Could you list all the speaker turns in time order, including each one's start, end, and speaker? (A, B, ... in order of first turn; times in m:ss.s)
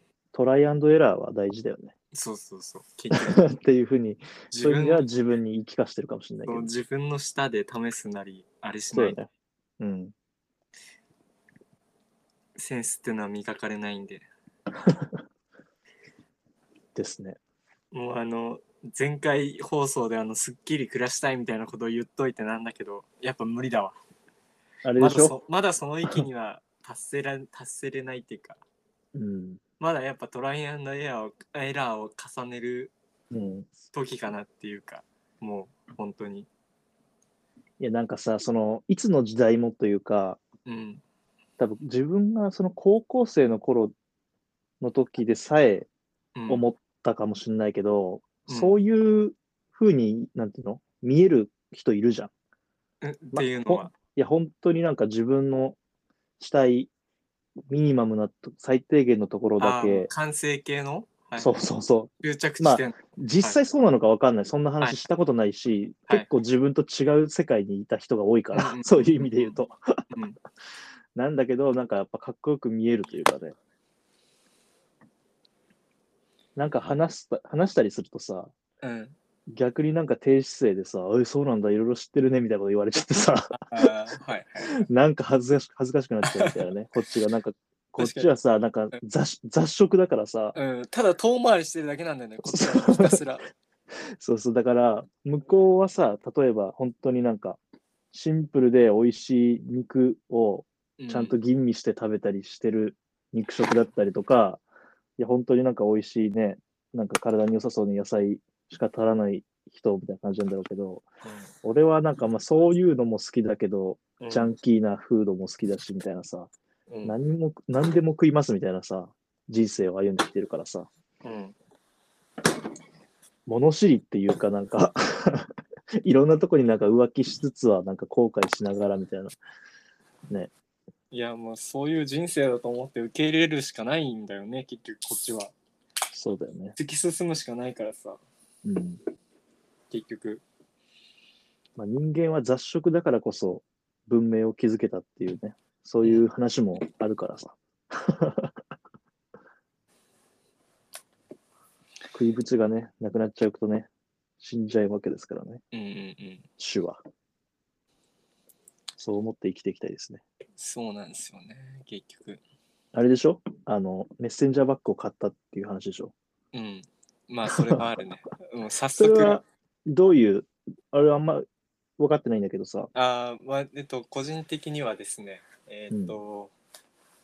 0:00.3-0:01.9 A
0:02.1-0:03.4 B
0:03.1-0:06.7 A
0:04.5-0:05.0 B
0:06.5-0:09.2 B
0:08.9-0:09.3 A
0:09.8-0:10.1 A
0:12.6-0:14.2 B
0:14.8-0:15.2 A
0:16.9-0:17.4 A
0:17.9-0:24.0 B
0:24.8-0:25.3 A
0:25.0-0:28.6 B
0:29.1-0:29.6 A
0:29.8-0:32.9 B
0:33.3-0:33.7 A
0:33.8-0:36.5 B
0:37.8-0:40.4 A
0:40.6-0:41.0 B
0:41.6-0:43.9 A
0:44.8-0:45.9 A
0:46.4-0:46.6 B
0:46.5-0:52.3 A
0:48.5-0:48.8 B
0:53.0-0:53.9 B
0:53.3-0:55.8 A
0:56.4-0:56.9 A
0:57.7-1:00.1 A
0:59.6-1:01.5 B
1:01.4-1:10.0 A
1:02.2-1:03.6 B
1:08.5-1:09.6 B
1:10.1-1:10.4 B
1:11.2-1:13.6 A
1:16.6-1:18.5 A
1:18.8-1:19.2 B
1:19.5-1:23.9 A
1:23.5-1:24.9 B
1:24.7-1:30.6 A
1:26.2-1:26.6 B
1:28.0-1:28.3 B
1:30.5-1:33.5 B
1:32.4-1:33.2 A
1:34.2-1:37.6 A
1:38.1-1:44.6 A
1:41.0-1:41.4 B
1:45.2-1:51.0 A
1:51.2-1:51.5 B
1:51.6-1:56.5 A
1:54.2-1:54.5 B
1:56.9-1:57.1 B
1:57.0-2:00.9 A
2:01.2-2:01.5 B
2:03.4-2:09.4 A
2:11.1-2:15.5 B
2:16.1-2:16.8 A
2:16.8-2:18.2 B
2:18.6-2:19.0 A
2:19.9-2:20.4 B
2:21.8-2:28.6 A
2:32.1-2:33.9 A
2:34.4-2:35.6 A
2:35.7-2:36.4 B
2:36.6-2:37.0 A
2:39.0-2:40.2 A
2:40.6-2:42.4 B
2:42.9-2:46.1 A
2:46.5-2:49.4 B
2:47.5-2:47.8 A
2:49.0-2:51.5 A
2:52.0-2:52.9 A
2:52.9-2:56.5 B
2:55.9-2:56.2 A